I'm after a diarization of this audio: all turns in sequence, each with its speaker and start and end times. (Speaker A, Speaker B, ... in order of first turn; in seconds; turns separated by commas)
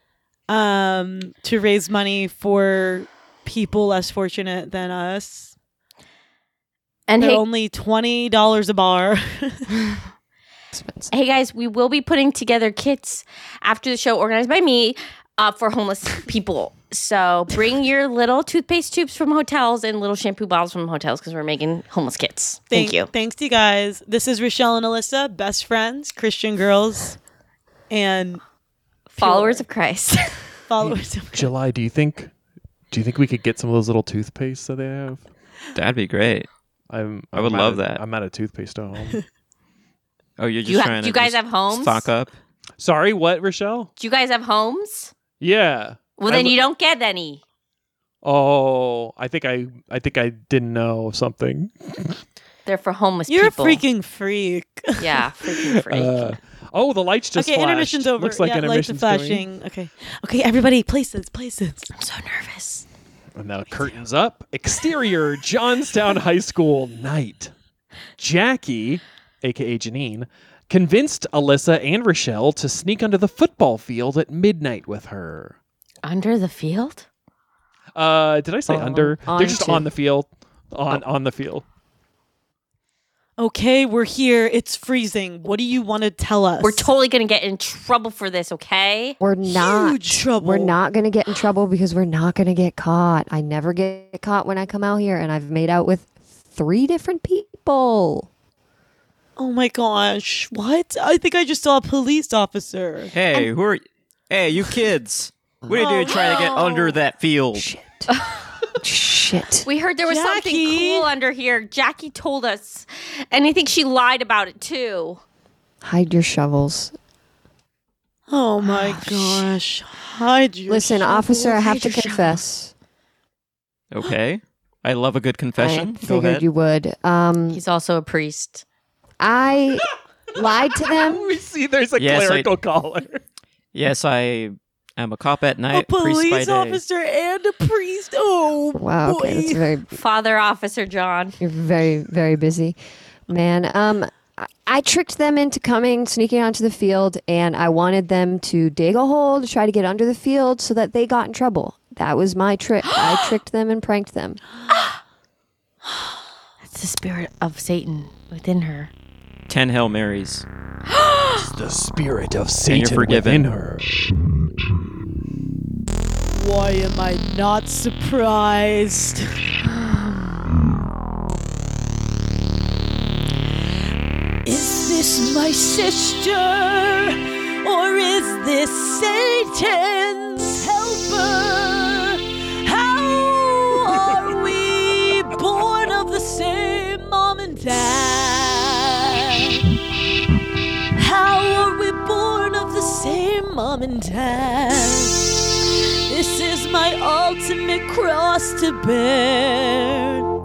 Speaker A: 0.5-5.5, Speaker B: 7.1-7.4, Speaker A: 7.2-9.7, Speaker C: 10.7-11.1, Speaker B: 11.1-23.1, Speaker A: 22.7-27.2, Speaker A: 27.9-28.4, Speaker B: 29.2-30.4, Speaker A: 29.2-29.6, Speaker A: 30.7-31.5, Speaker D: 30.8-32.3, Speaker D: 32.9-35.3, Speaker E: 35.8-36.5, Speaker D: 36.9-39.2, Speaker E: 37.3-38.0, Speaker E: 40.4-42.3, Speaker B: 40.7-42.1, Speaker D: 42.8-43.9, Speaker B: 44.0-45.1, Speaker D: 45.4-46.6, Speaker B: 46.2-47.4, Speaker D: 48.2-52.2, Speaker B: 52.7-53.8, Speaker A: 53.3-55.3, Speaker B: 55.0-56.4, Speaker D: 55.8-59.5, Speaker A: 57.4-61.9, Speaker B: 62.0-62.9, Speaker D: 63.4-67.5, Speaker D: 68.2-75.6, Speaker B: 76.0-77.1, Speaker D: 78.0-81.7, Speaker C: 78.7-79.9, Speaker A: 83.4-86.9, Speaker B: 86.6-89.2, Speaker C: 89.2-98.3, Speaker A: 89.5-90.8, Speaker A: 99.4-103.1, Speaker E: 103.1-107.7, Speaker A: 105.7-106.7, Speaker B: 105.8-107.0, Speaker C: 107.5-108.1, Speaker B: 108.1-108.5, Speaker C: 108.8-109.7, Speaker B: 109.7-115.2, Speaker A: 110.1-111.1, Speaker C: 115.8-116.9, Speaker A: 118.3-121.1, Speaker B: 118.6-119.5, Speaker C: 120.7-122.7, Speaker B: 121.1-122.4, Speaker E: 123.9-126.4, Speaker C: 125.6-127.6, Speaker B: 127.5-128.6, Speaker C: 129.2-131.3, Speaker D: 130.9-133.2, Speaker E: 132.0-132.5, Speaker E: 133.7-136.8, Speaker A: 135.7-139.6, Speaker C: 138.8-139.9, Speaker B: 139.9-141.4, Speaker C: 141.4-142.8, Speaker C: 143.3-154.4, Speaker B: 152.9-153.3, Speaker B: 156.6-158.9, Speaker E: 159.5-160.4, Speaker B: 160.9-161.5, Speaker D: 161.3-163.9, Speaker E: 162.7-163.5, Speaker A: 166.3-169.3, Speaker B: 169.7-170.3, Speaker A: 174.4-189.6, Speaker A: 191.0-195.3, Speaker A: 196.1-200.2